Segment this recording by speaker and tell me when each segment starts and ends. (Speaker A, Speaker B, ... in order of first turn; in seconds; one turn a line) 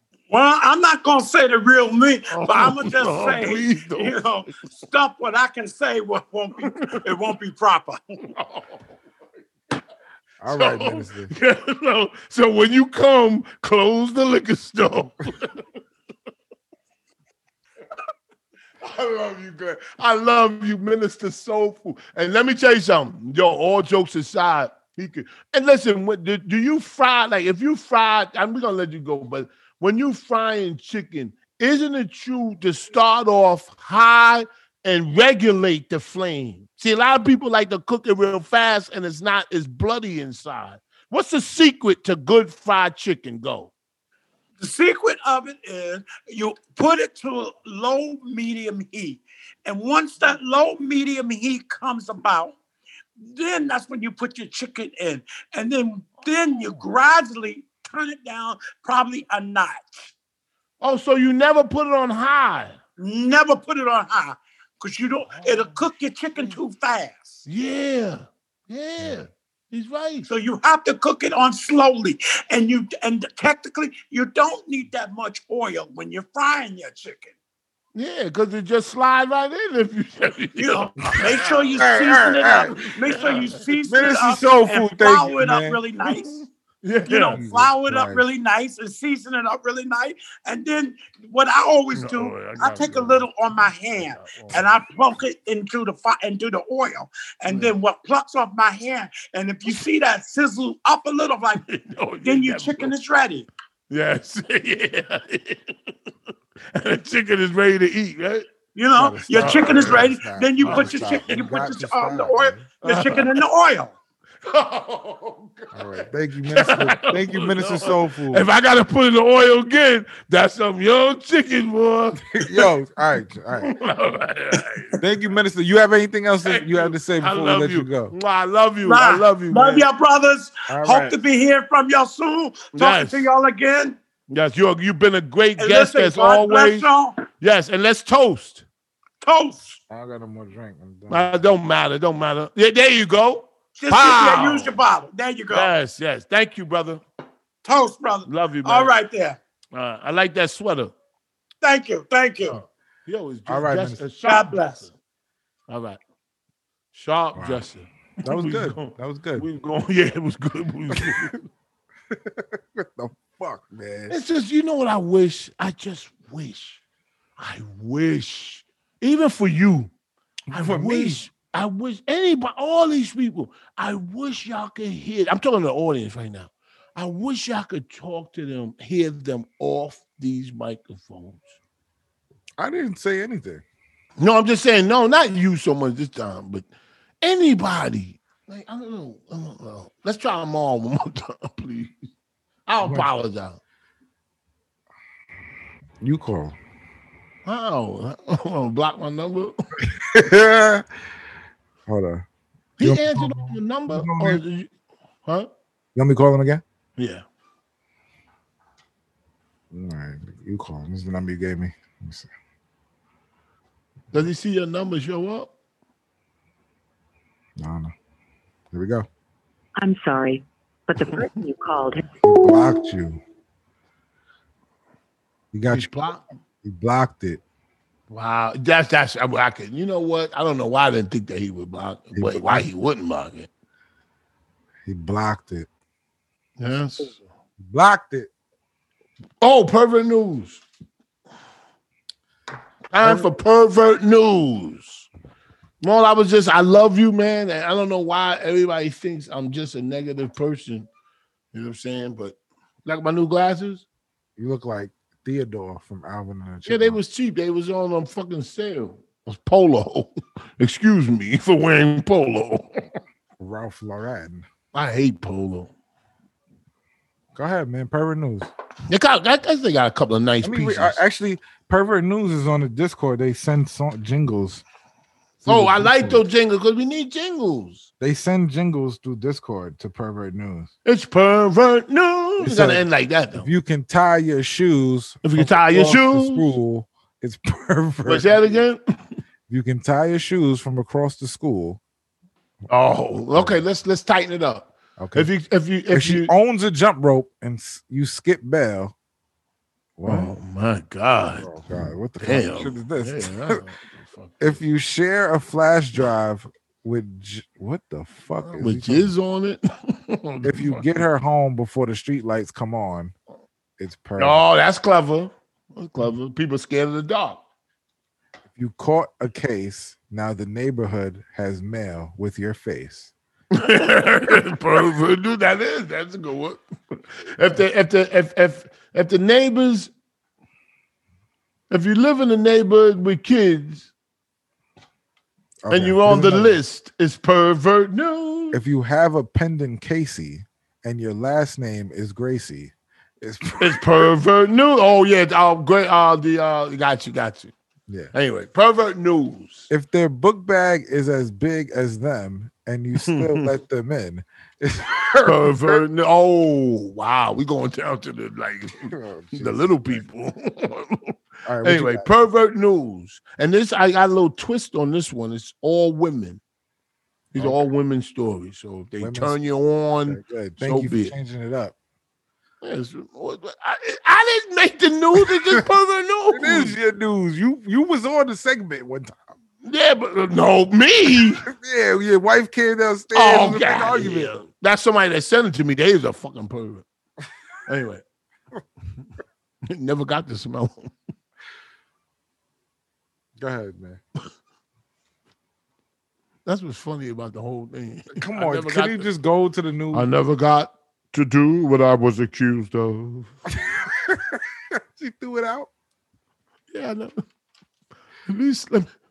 Speaker A: 0.3-8.0
Speaker B: 2.3-4.2
Speaker B: 6.6-7.0
Speaker B: 8.3-8.8
Speaker C: 10.4-11.3
Speaker B: 10.5-15.6
Speaker B: 18.8-43.7
Speaker A: 44.6-52.5
Speaker A: 53.2-60.1
Speaker B: 56.5-56.8
Speaker B: 60.8-62.8
Speaker A: 63.0-67.4
Speaker B: 65.3-65.8
Speaker B: 67.5-70.3
Speaker A: 70.3-77.3
Speaker B: 77.9-81.8
Speaker A: 80.6-86.4
Speaker C: 81.7-82.8
Speaker B: 82.8-83.6
Speaker C: 83.8-85.8
Speaker B: 86.0-87.4
Speaker A: 87.0-101.6
Speaker C: 87.3-88.2
Speaker B: 91.9-94.8
Speaker B: 97.5-97.7
Speaker B: 101.6-102.9
Speaker A: 102.2-103.5
Speaker B: 103.9-105.9
Speaker B: 106.7-108.5
Speaker A: 108.7-114.0
Speaker C: 108.9-112.7
Speaker B: 109.3-111.3
Speaker B: 112.8-113.4
Speaker B: 114.4-122.7
Speaker C: 115.7-118.5
Speaker C: 122.3-123.7
Speaker B: 123.6-125.0
Speaker C: 125.0-128.1
Speaker B: 126.4-129.9
Speaker A: 128.8-134.0
Speaker C: 130.7-131.2
Speaker B: 132.7-133.3
Speaker B: 134.3-138.6
Speaker A: 135.6-137.2
Speaker A: 139.2-139.8
Speaker C: 139.9-141.5
Speaker B: 141.1-144.8
Speaker A: 143.8-145.7
Speaker B: 145.5-147.0
Speaker A: 147.6-149.4
Speaker B: 148.3-148.9
Speaker B: 149.7-150.9
Speaker A: 151.6-152.6
Speaker B: 152.5-154.9
Speaker C: 153.5-154.0
Speaker A: 154.2-154.9
Speaker B: 155.7-156.0
Speaker B: 156.9-161.4
Speaker C: 157.3-157.6
Speaker C: 158.2-159.4
Speaker C: 160.9-161.2
Speaker C: 162.1-164.2
Speaker B: 164.1-166.8
Speaker B: 167.4-169.9
Speaker C: 170.5-171.2
Speaker B: 170.5-181.6
Speaker C: 182.6-183.6
Speaker B: 184.2-186.7
Speaker B: 187.2-191.9
Speaker B: 192.7-193.6
Speaker C: 192.8-193.1
Speaker C: 196.0-196.6
Speaker B: 197.4-199.6
Speaker C: 199.8-200.9
Speaker C: 201.9-202.2
Speaker B: 202.8-204.7
Speaker C: 202.8-204.4
Speaker C: 205.9-206.6
Speaker B: 207.0-207.2
Speaker C: 209.7-212.3
Speaker B: 214.1-215.5
Speaker C: 217.6-217.9
Speaker C: 218.7-219.1
Speaker D: 219.8-222.0
Speaker C: 222.2-223.2
Speaker C: 225.5-226.0
Speaker B: 225.7-226.2
Speaker C: 226.6-227.4
Speaker B: 228.1-233.5
Speaker C: 232.1-232.7
Speaker C: 234.8-235.7
Speaker B: 236.6-237.2
Speaker C: 237.6-238.3
Speaker B: 239.4-240.6
Speaker B: 242.9-245.1
Speaker C: 243.0-243.3
Speaker B: 245.8-250.9
Speaker B: 251.5-253.8
Speaker C: 254.4-257.0
Speaker B: 256.7-262.9
Speaker C: 263.4-264.4
Speaker B: 264.7-265.7
Speaker C: 267.3-268.5
Speaker B: 268.9-271.0
Speaker C: 270.4-274.6
Speaker C: 275.4-276.2
Speaker B: 275.4-277.9
Speaker C: 278.0-280.7
Speaker B: 280.8-283.5
Speaker C: 282.4-288.6
Speaker B: 285.2-286.5
Speaker B: 288.0-288.8
Speaker C: 289.5-291.8
Speaker B: 292.7-296.3
Speaker C: 293.3-293.6
Speaker C: 295.0-295.3
Speaker C: 295.9-298.9
Speaker C: 300.0-300.3
Speaker B: 300.1-301.5
Speaker C: 301.4-303.6
Speaker B: 302.2-304.6
Speaker C: 304.4-309.1
Speaker B: 308.4-310.9
Speaker C: 310.4-313.1
Speaker C: 313.8-314.4
Speaker B: 314.2-317.4
Speaker C: 318.5-323.1
Speaker B: 323.5-329.9
Speaker B: 331.7-333.9
Speaker C: 335.6-336.6
Speaker B: 335.7-338.6
Speaker C: 338.5-344.1
Speaker B: 343.6-347.5
Speaker C: 347.9-348.1
Speaker B: 348.1-349.7
Speaker C: 349.7-355.8
Speaker B: 353.0-353.5
Speaker B: 355.2-366.4
Speaker C: 358.9-360.0
Speaker C: 361.4-362.1
Speaker C: 367.3-367.7
Speaker B: 367.3-371.1
Speaker C: 369.0-369.4
Speaker C: 370.1-371.7
Speaker B: 372.6-376.7
Speaker C: 375.2-375.6
Speaker C: 376.3-379.2
Speaker B: 379.6-381.4
Speaker C: 381.4-384.3
Speaker B: 383.1-386.8
Speaker B: 387.7-388.0
Speaker B: 389.7-390.9
Speaker C: 393.4-394.0
Speaker B: 396.4-399.1
Speaker C: 398.1-400.1
Speaker B: 399.9-403.3
Speaker C: 403.5-405.7
Speaker B: 406.7-407.1
Speaker B: 408.3-408.9